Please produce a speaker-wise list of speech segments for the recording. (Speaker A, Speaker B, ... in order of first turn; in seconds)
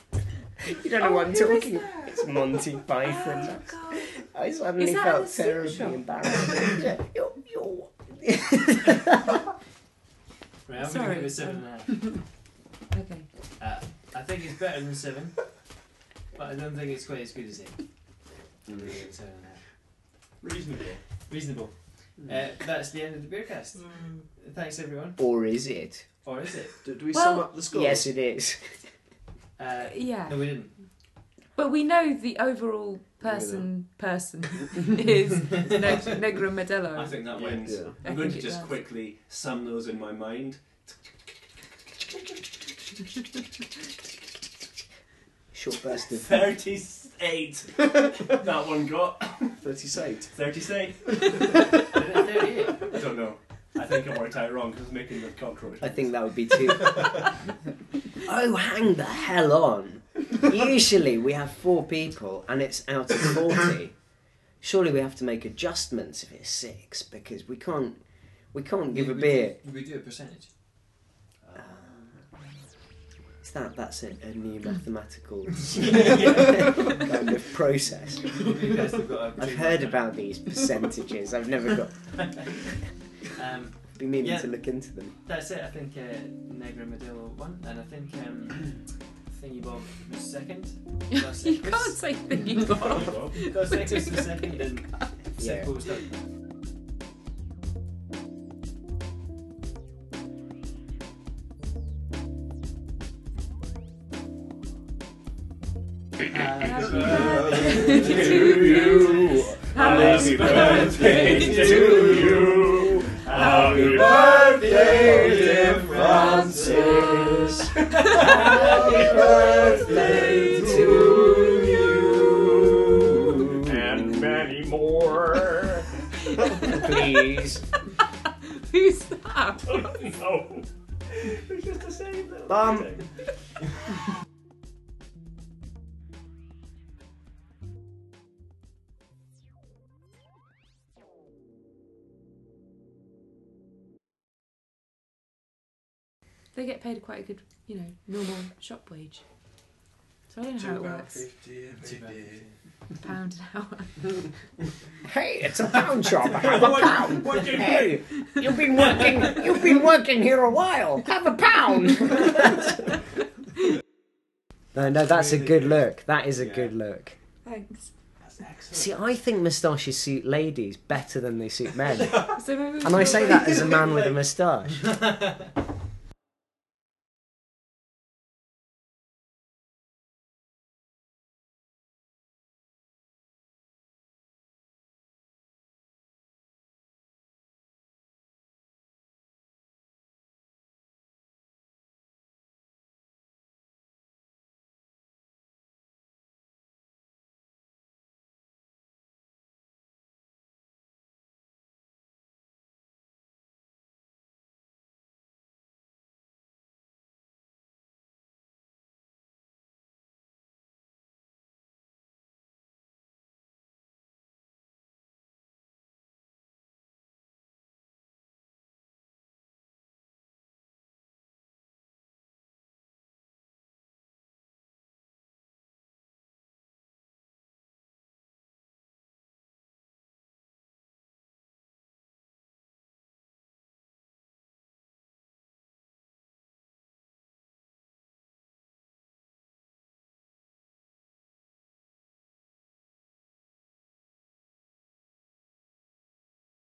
Speaker A: 0.6-9.3, 25.2-26.2, 27.7-29.0, 45.5-46.5, 55.8-57.4, 58.2-69.6, 71.5-72.1, 73.4-78.5, 79.4-82.5, 83.9-85.2, 95.4-95.7, 110.3-117.6, 118.2-124.4, 125.1-125.7, 126.5-127.7, 132.5-133.0, 155.0-162.8, 164.7-167.2, 168.7-175.0
Speaker B: 1.0-4.2, 4.8-6.8, 10.8-13.3, 27.1-27.6, 29.8-30.9, 31.5-38.7, 91.1-95.3, 107.4-111.8, 113.4-114.0, 116.2-117.3, 120.0-120.5, 128.4-129.9, 146.5-149.2, 150.3-151.2, 153.0-154.2, 167.4-167.9, 172.3-173.9
Speaker C: 10.6-12.2, 13.6-15.6, 16.3-19.6, 21.2-25.2, 26.2-26.8, 29.6-30.8, 35.7-36.0, 37.3-37.8, 51.9-52.9, 68.9-70.5, 78.3-80.1, 82.2-82.6, 83.3-84.6, 85.2-96.3, 106.3-111.7, 113.2-116.9, 118.3-119.3, 151.8-152.2
Speaker D: 20.4-21.1, 36.9-41.1, 46.1-49.6, 50.3-51.5, 52.8-56.8, 71.4-72.2, 92.9-93.4, 107.7-117.5, 118.0-122.4, 123.6-125.7, 129.7-133.1, 156.2-158.0, 158.8-159.6, 166.3-166.7, 168.2-169.0, 172.0-174.2
Speaker E: 26.8-28.1, 33.2-33.7, 37.6-38.0, 49.6-50.4, 107.2-107.7, 110.3-111.2, 111.8-112.3, 114.2-117.6, 119.0-119.8
Speaker F: 150.5-152.6